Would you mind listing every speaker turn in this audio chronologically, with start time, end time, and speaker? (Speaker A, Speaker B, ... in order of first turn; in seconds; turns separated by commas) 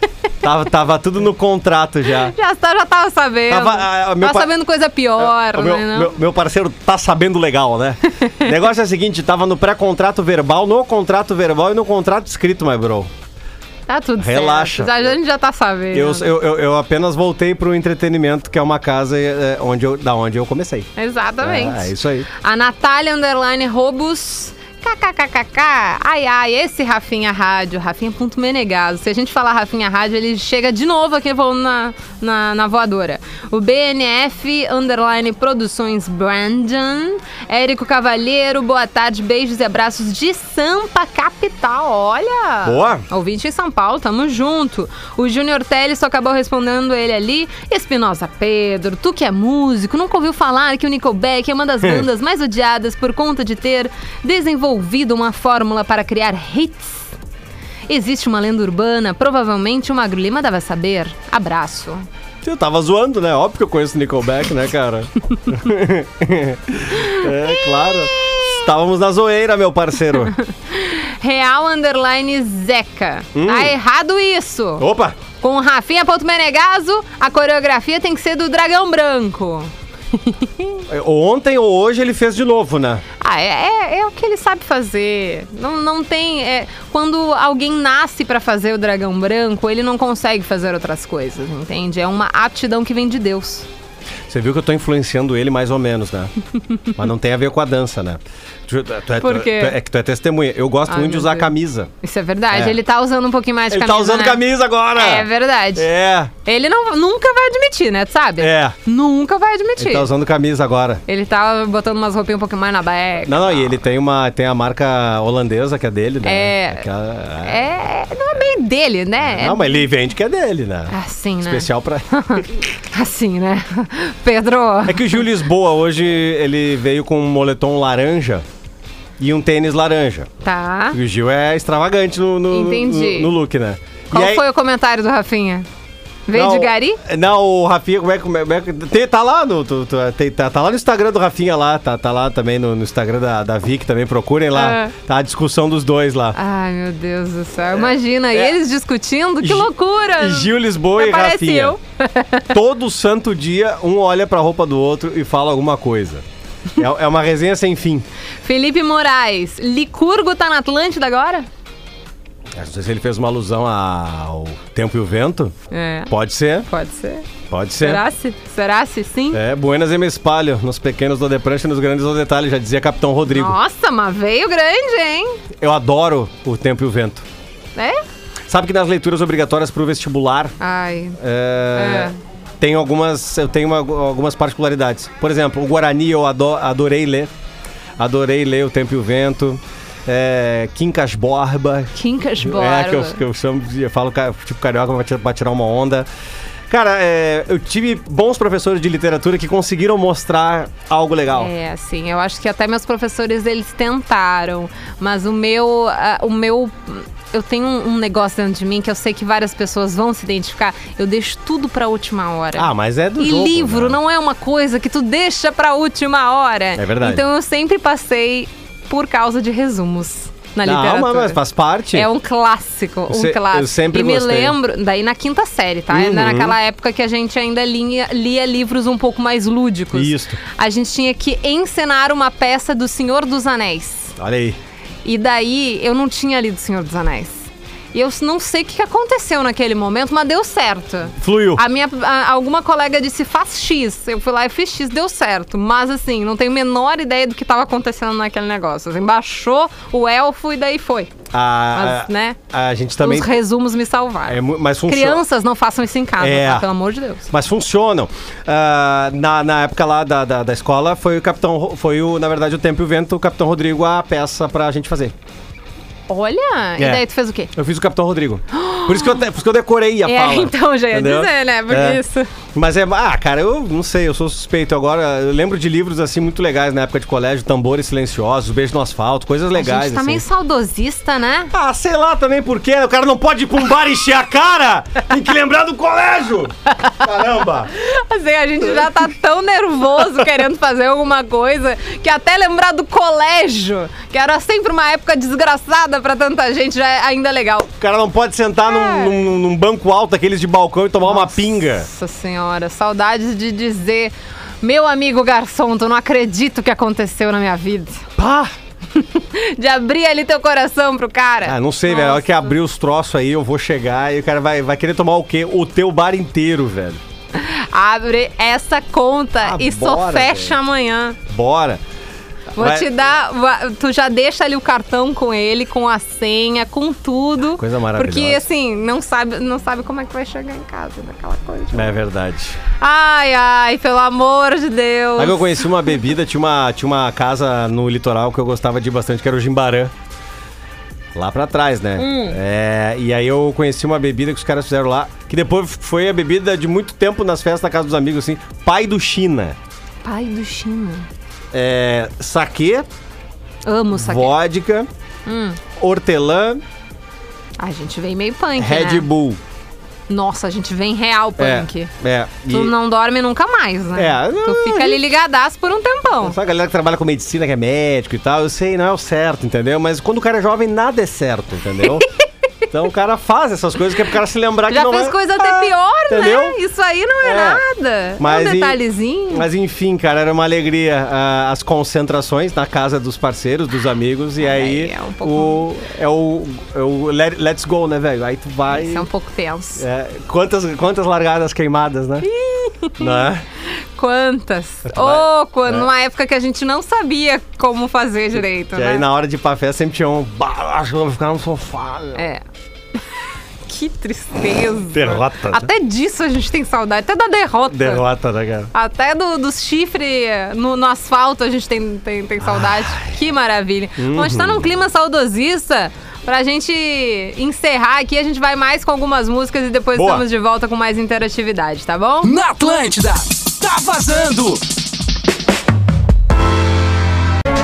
Speaker A: 0.4-2.4, Speaker B: 2.3-6.1, Speaker A: 3.5-4.5, Speaker A: 5.2-13.1, Speaker B: 13.9-16.3, Speaker A: 14.2-15.2, Speaker A: 15.9-20.9, Speaker B: 21.0-57.1, Speaker A: 21.4-22.3, Speaker A: 42.6-43.0, Speaker B: 57.9-62.1, Speaker A: 62.4-70.3, Speaker B: 70.4-74.8, Speaker A: 73.3-73.8, Speaker A: 74.8-75.2, Speaker B: 75.4-80.8, Speaker A: 80.9-83.0, Speaker B: 83.2-93.7, Speaker A: 94.3-96.3, Speaker A: 97.0-101.9, Speaker B: 99.2-99.8, Speaker B: 100.9-104.4, Speaker A: 102.5-102.8, Speaker A: 103.7-106.3, Speaker B: 105.0-105.9, Speaker B: 106.5-110.1, Speaker A: 108.4-108.8, Speaker A: 109.8-111.0, Speaker B: 111.1-113.7, Speaker A: 113.2-117.6, Speaker B: 116.2-116.9, Speaker B: 117.4-119.9, Speaker A: 119.2-122.5, Speaker B: 120.9-125.2, Speaker A: 124.9-128.4, Speaker A: 129.2-130.3, Speaker B: 130.4-131.0, Speaker A: 130.9-134.4, Speaker B: 132.5-133.3, Speaker B: 134.1-135.7, Speaker B: 136.3-137.0, Speaker A: 136.3-146.4, Speaker B: 144.5-144.9, Speaker B: 146.3-152.5, Speaker A: 147.7-148.6, Speaker A: 149.4-151.8, Speaker A: 152.5-156.2, Speaker A: 156.8-158.1, Speaker B: 158.4-161.5, Speaker A: 162.6-165.6, Speaker B: 165.7-166.1, Speaker A: 166.1-166.7, Speaker B: 166.6-167.3, Speaker A: 167.5-168.0, Speaker B: 167.8-169.4, Speaker A: 169.3-173.6, Speaker B: 173.3-175.4, Speaker A: 175.6-177.2, Speaker B: 177.8-178.0, Speaker A: 178.5-180.6, Speaker B: 180.6-181.2, Speaker A: 181.2-187.3, Speaker B: 181.8-182.1, Speaker A: 188.0-196.1, Speaker B: 191.9-193.2, Speaker A: 196.7-201.5, Speaker B: 201.3-221.4, Speaker A: 212.5-214.0, Speaker A: 216.8-217.2, Speaker A: 220.6-222.1, Speaker B: 221.9-234.1, Speaker A: 223.1-224.6, Speaker A: 225.9-226.6, Speaker A: 229.9-230.4, Speaker A: 234.2-234.6, Speaker B: 235.1-251.1, Speaker A: 241.2-241.6, Speaker A: 251.3-253.4, Speaker B: 251.7-252.4, Speaker B: 253.0-257.3, Speaker A: 254.3-255.2, Speaker A: 256.2-256.7, Speaker A: 257.3-265.1, Speaker B: 266.1-267.5, Speaker A: 266.8-272.0, Speaker B: 268.5-269.2, Speaker B: 270.1-272.3, Speaker A: 272.5-280.2, Speaker B: 279.6-281.5, Speaker A: 281.5-287.7, Speaker B: 286.7-287.1, Speaker B: 287.7-297.7, Speaker A: 288.6-288.9, Speaker A: 297.8-301.9, Speaker B: 298.6-299.2, Speaker B: 301.0-308.0, Speaker A: 308.2-308.5, Speaker B: 309.0-312.6, Speaker A: 311.4-317.0, Speaker B: 317.4-321.2, Speaker A: 319.4-320.6, Speaker A: 321.3-321.8, Speaker A: 322.6-322.9, Speaker B: 322.6-332.0, Speaker A: 327.5-328.5, Speaker A: 331.7-332.6, Speaker B: 332.8-335.7, Speaker A: 335.2-339.9, Speaker A: 341.1-349.6, Speaker B: 342.0-342.4, Speaker B: 350.0-351.1, Speaker A: 351.5-352.9, Speaker B: 353.7-354.4, Speaker A: 353.9-354.9, Speaker B: 355.3-355.6, Speaker A: 355.8-356.6, Speaker B: 357.6-359.1, Speaker A: 358.6-359.4, Speaker B: 360.1-361.9, Speaker A: 361.4-362.7, Speaker B: 362.5-366.4, Speaker A: 363.9-365.0, Speaker A: 366.2-372.1, Speaker A: 372.7-376.6, Speaker B: 374.7-379.5, Speaker A: 377.2-377.6, Speaker A: 378.2-389.1, Speaker B: 384.4-385.6, Speaker B: 388.7-389.9, Speaker A: 389.8-392.3, Speaker B: 392.2-393.3, Speaker A: 393.0-393.4, Speaker B: 394.0-399.1, Speaker A: 394.9-395.9, Speaker A: 398.8-402.2, Speaker B: 402.1-402.4, Speaker B: 403.7-408.0, Speaker A: 404.9-405.7, Speaker A: 407.7-408.7, Speaker B: 408.7-422.3, Speaker A: 412.4-413.1, Speaker A: 414.0-414.7, Speaker A: 419.9-420.2, Speaker C: 422.2-424.6